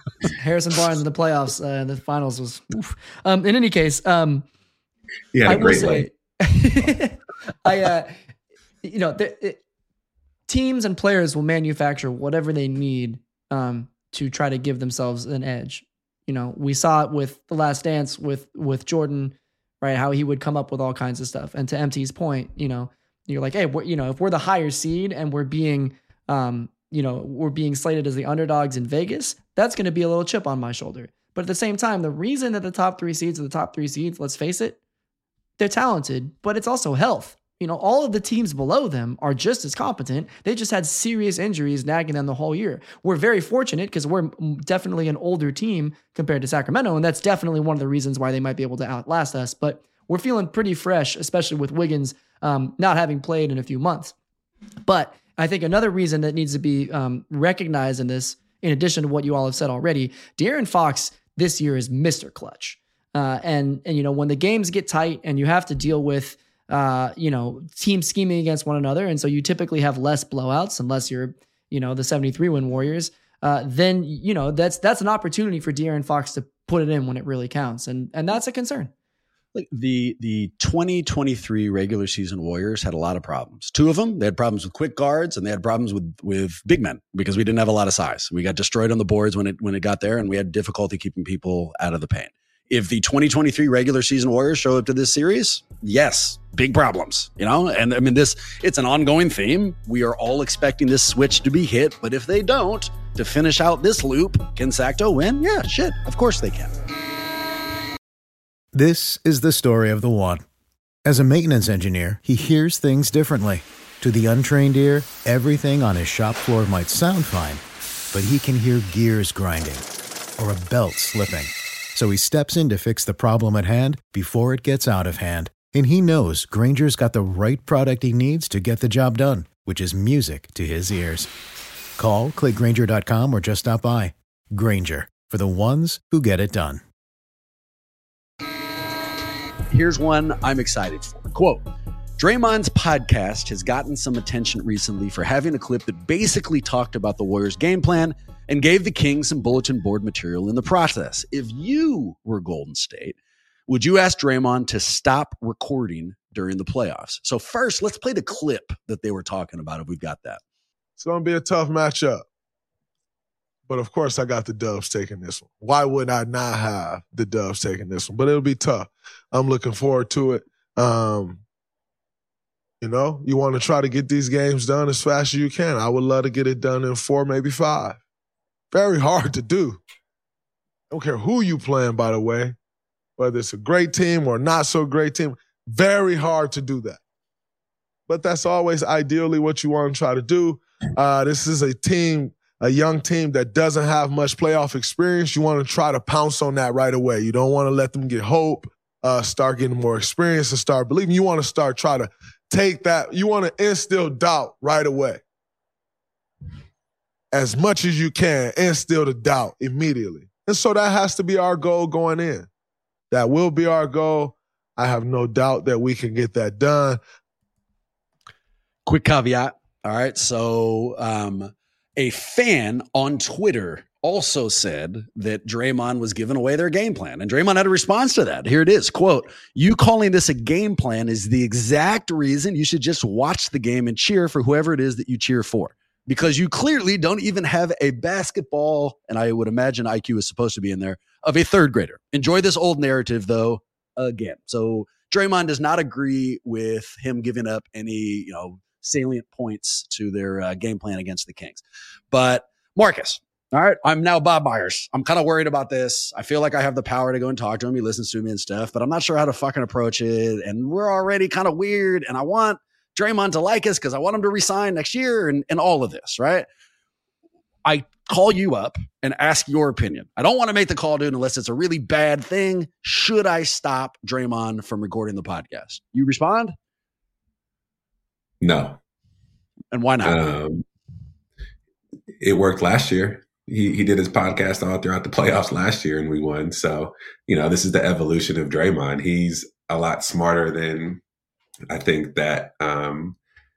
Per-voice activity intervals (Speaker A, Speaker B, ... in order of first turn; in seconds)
Speaker A: 0.4-4.5, 5.5-8.1, 8.8-9.6, 10.5-34.8, 35.6-54.1, 54.9-78.9
Speaker B: 5.3-6.1, 278.4-278.8, 280.0-280.6, 282.2-291.0, 291.7-293.2
Speaker C: 79.5-106.7, 139.7-141.6, 142.2-153.2, 153.7-160.4, 218.9-266.5, 267.6-276.5, 279.7-280.2
Speaker D: 108.7-110.4, 111.0-119.8, 120.4-131.3, 132.0-136.8
Speaker E: 161.0-162.2, 163.7-171.4, 172.8-178.0, 178.7-179.8, 180.9-182.6, 183.2-187.0, 188.1-205.2, 207.3-212.5, 213.1-217.0